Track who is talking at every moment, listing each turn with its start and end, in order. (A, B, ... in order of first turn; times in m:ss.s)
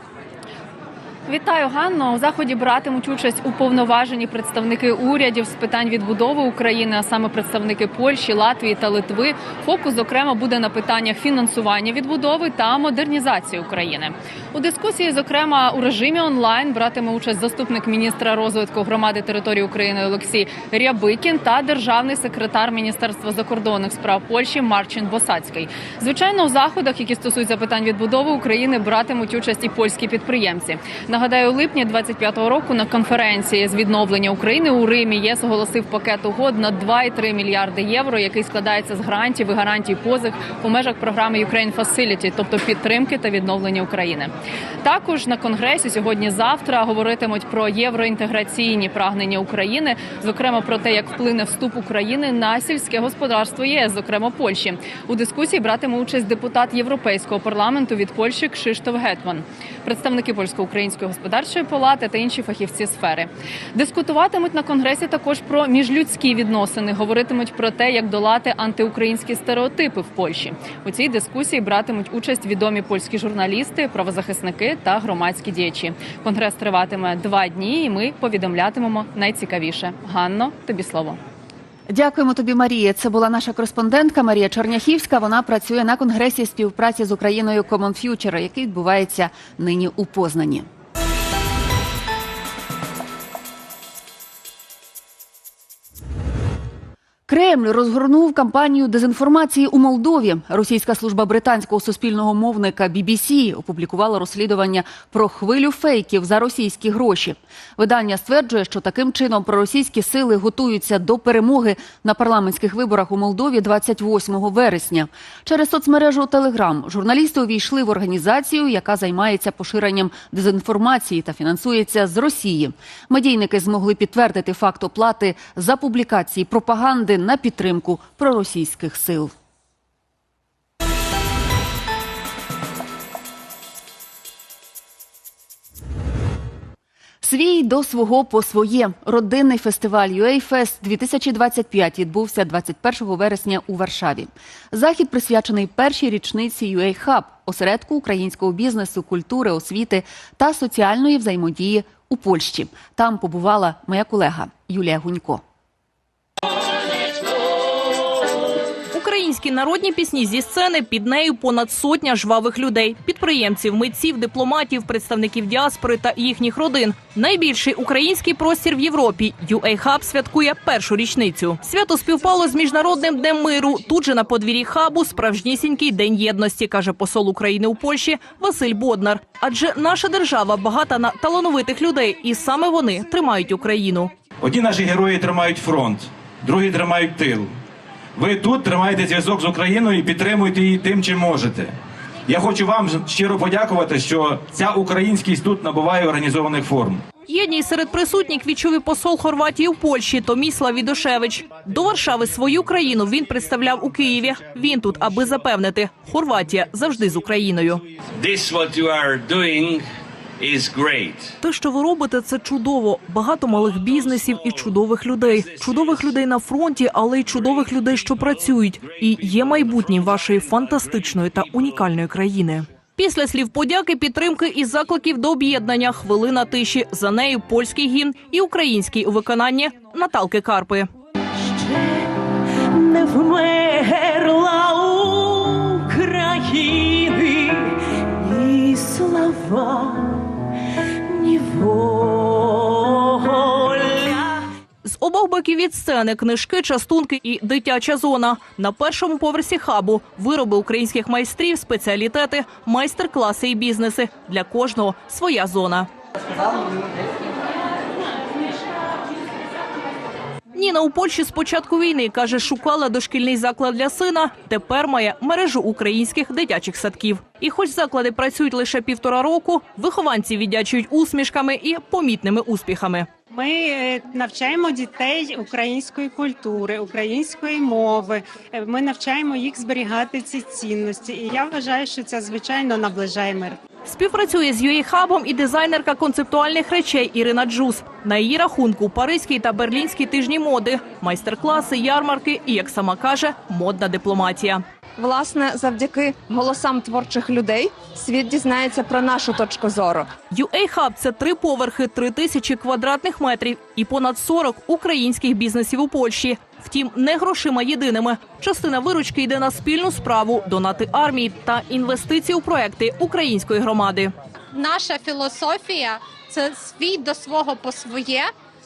0:01.3-0:44.3 A
0:44.8-1:21.2 A
1:21.9-1:30.7 B
1:37.3-2:09.3 B
2:17.2-2:35.4 B
2:38.9-3:04.1 C
3:04.4-3:07.5 D
3:08.1-3:11.7 D
3:12.3-3:17.0 D
3:17.3-3:27.8 C
3:28.2-3:29.8 E
3:30.4-3:31.3 E
3:31.4-3:50.9 C
3:34.1-3:34.6 E
3:35.4-3:36.0 E
3:39.0-3:40.5 E
3:51.6-3:51.9 F
3:52.9-3:54.7 F
3:53.1-3:53.9 C
3:54.7-3:55.9 C
3:56.1-3:57.3 F
3:58.3-4:00.2 F
3:59.2-3:59.6 C
4:01.2-4:02.2 F
4:03.0-4:04.2 F
4:04.8-4:15.9 C
4:20.5-4:33.1 C
4:33.3-4:43.6 G
4:43.8-4:54.6 C
4:55.0-5:00.1 H
5:00.3-5:14.1 C
5:14.5-5:18.3 I